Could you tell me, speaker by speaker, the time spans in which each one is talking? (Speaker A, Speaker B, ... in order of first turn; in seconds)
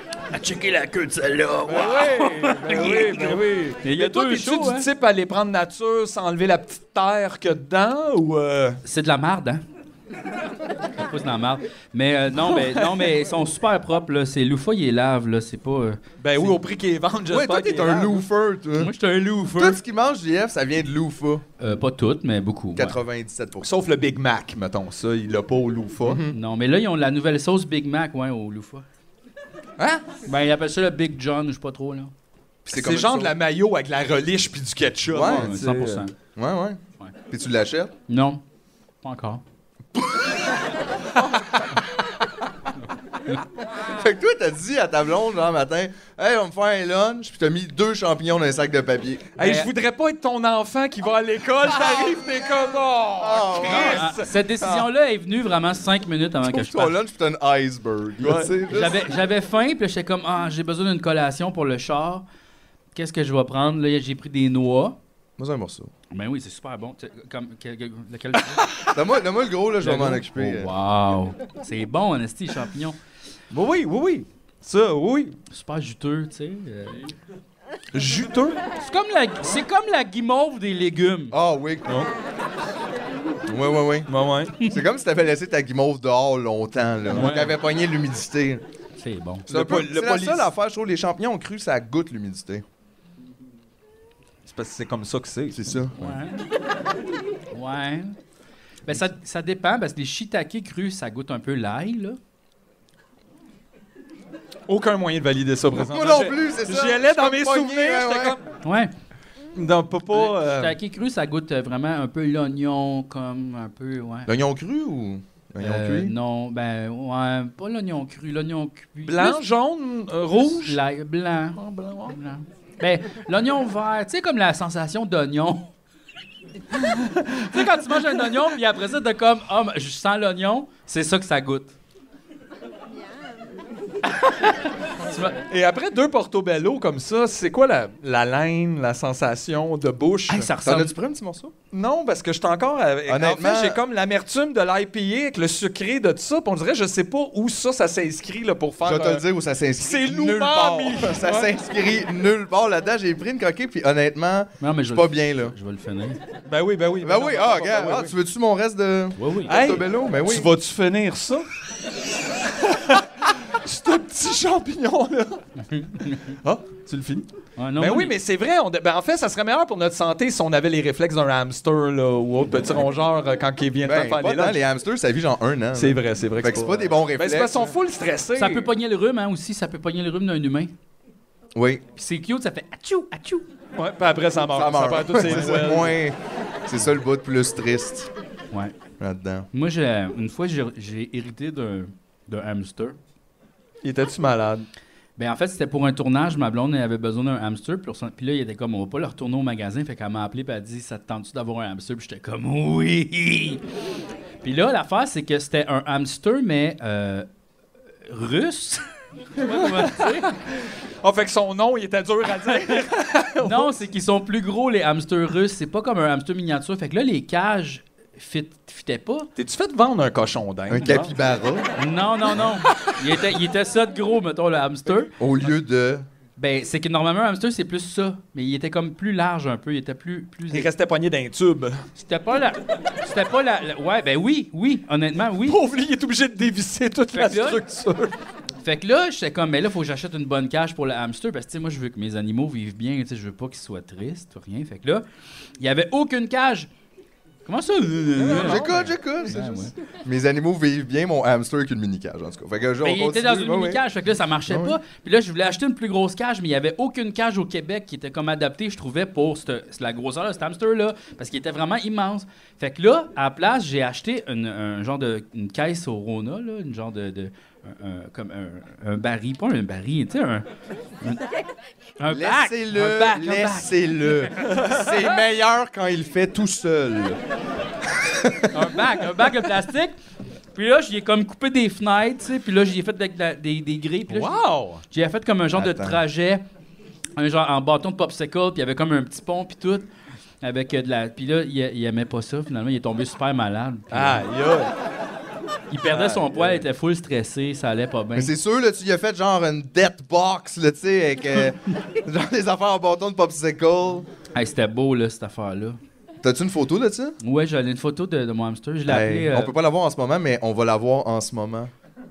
Speaker A: 0.3-4.8, 8.8-9.6, 10.9-16.6, 18.8-19.8, 21.6-22.9, 26.3-28.8, 30.2-32.1, 35.2-36.1, 38.1-38.4, 39.0-39.4, 49.4-49.7, 53.6-57.0, 58.7-62.2, 62.9-65.0, 66.1-68.7, 69.8-73.0, 75.5-77.1, 78.8-81.3, 87.1-87.5, 89.0-89.5, 96.0-96.4, 97.5-98.2, 98.8-102.2, 108.6-108.9, 110.1-114.3, 115.6-119.4, 120.3-125.7, 127.3-131.7, 134.1-135.4, 140.3-140.9, 154.6-156.2, 159.2-159.5, 165.6-166.4, 167.6-168.1, 178.4-180.7, 181.9-183.4, 189.5-193.0, 195.2-203.6, 204.4-207.2, 208.1-208.8, 209.4-210.3, 213.4-219.3, 221.8-225.1, 226.4-230.7, 232.0-235.6, 237.1-237.6, 238.6-245.0, 245.6-246.7, 247.4-249.7, 252.8-270.4, 271.0-271.4, 272.0-273.7, 278.5-279.9, 280.5-284.4, 284.9-286.4, 287.2-289.9, 290.4-294.2, 295.7-298.3, 304.3-305.8, 307.2-309.5
Speaker B: 1.7-8.8, 12.3-13.1, 16.2-18.2, 23.6-26.2, 32.7-36.0, 49.3-54.3, 58.2-58.5, 68.6-68.9, 73.5-75.4, 77.9-78.6, 84.1-84.5, 89.5-90.5, 94.5-95.8, 104.7-108.4, 109.5-110.7, 119.0-120.8, 121.6-122.1, 127.2-128.1, 135.5-140.5, 141.7-149.2, 149.8-151.5, 156.5-158.1, 159.5-161.5, 162.4-165.4, 166.4-167.3, 167.8-174.6, 175.7-178.7, 183.8-185.9, 193.8-194.7, 209.5-210.3, 211.0-213.7, 219.3-221.2, 230.5-231.8, 235.4-238.1, 248.3-248.6, 274.5-274.8, 284.1-284.8, 293.9-294.7, 295.8-296.6
Speaker C: 17.3-18.9, 19.5-21.4, 22.7-23.7, 26.0-26.4, 32.6-33.3, 35.1-35.5, 36.4-37.9, 40.0-40.3, 43.9-49.3, 53.2-54.1, 54.6-54.9, 56.4-59.1, 65.4-65.9, 68.9-70.7, 81.3-82.1, 83.5-84.1, 84.6-88.6, 89.5-92.6, 95.5-96.0, 105.8-108.4, 114.2-116.1, 140.6-141.5, 143.1-143.8, 148.8-155.5, 157.0-160.5, 173.8-177.7, 181.5-181.8, 184.5-188.1, 189.0-189.5, 220.7-221.7, 225.2-226.1, 248.2-253.8, 254.5-254.8, 272.1-277.2, 277.9-278.7, 285.5-286.0, 298.1-304.1, 306.2-307.2, 308.9-311.7